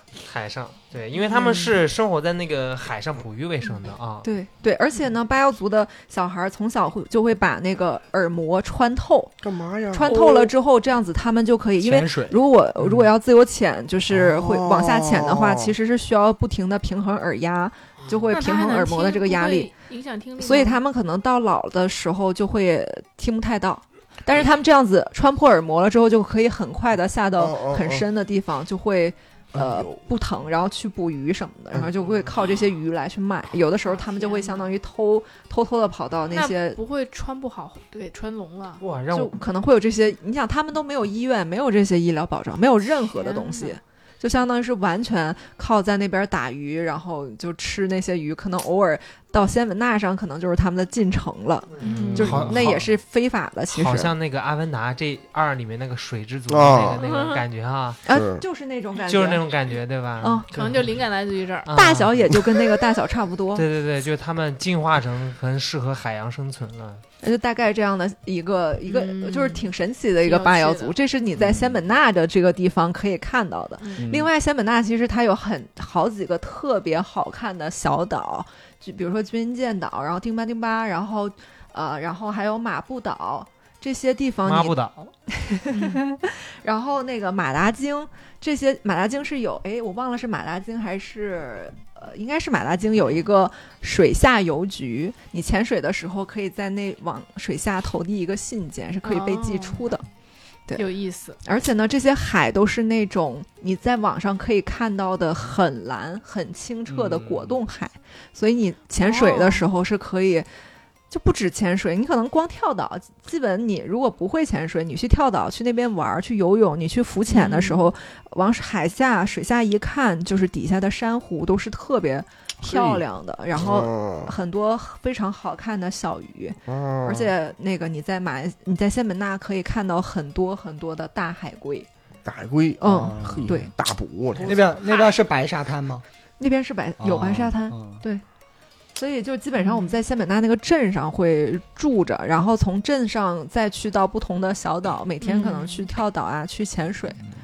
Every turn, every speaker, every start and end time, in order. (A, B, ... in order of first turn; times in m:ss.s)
0:00.2-0:04.3 A
0:01.3-0:01.7 B
0:04.2-0:09.4 B
0:09.4-0:10.1 C
0:09.9-0:19.7 B
0:10.1-0:10.5 D
0:11.8-0:12.4 E
0:14.1-0:15.7 C
0:18.3-0:20.8 D
0:20.4-0:36.8 B
0:27.4-0:28.0 C
0:29.6-0:30.0 C
0:33.9-0:34.7 D
0:36.3-0:38.8 D
0:38.8-0:39.3 A
0:39.1-0:54.1 B
0:43.1-0:43.8 D
0:51.8-0:52.5 D
0:51.8-0:52.8 A
0:52.2-0:52.7 E
0:53.7-0:58.0 A
0:56.5-0:57.0 C
0:57.0-0:57.4 D
0:58.0-0:59.5 B
0:58.1-0:58.4 C
0:59.0-1:00.9 A
1:00.2-1:00.5 B
1:00.5-1:01.7 D
1:01.7-1:02.4 A
1:01.7-1:03.6 B
1:03.6-1:07.0 A
1:07.2-1:24.8 B
1:08.9-1:09.7 D
1:10.2-1:11.0 D
1:11.4-1:11.8 E
1:14.0-1:14.3 E
1:24.4-1:24.9 A
1:25.3-1:40.0 B
1:25.7-1:26.0 D
1:39.0-1:39.8 D
1:40.8-1:41.4 D
1:41.4-1:50.5 B
1:46.9-1:47.6 E
1:49.0-1:49.6 D
1:51.1-2:11.9 B
1:57.3-1:57.9 D
2:02.7-2:03.0 C
2:03.6-2:04.3 C
2:06.7-2:07.3 C
2:12.2-2:14.6 C
2:12.8-2:13.7 B
2:12.9-2:13.6 E
2:14.4-2:16.0 E
2:14.8-2:15.1 D
2:16.4-2:18.2 B
2:17.0-2:18.0 E
2:19.0-2:27.2 B
2:19.6-2:19.9 D
2:25.2-2:25.9 D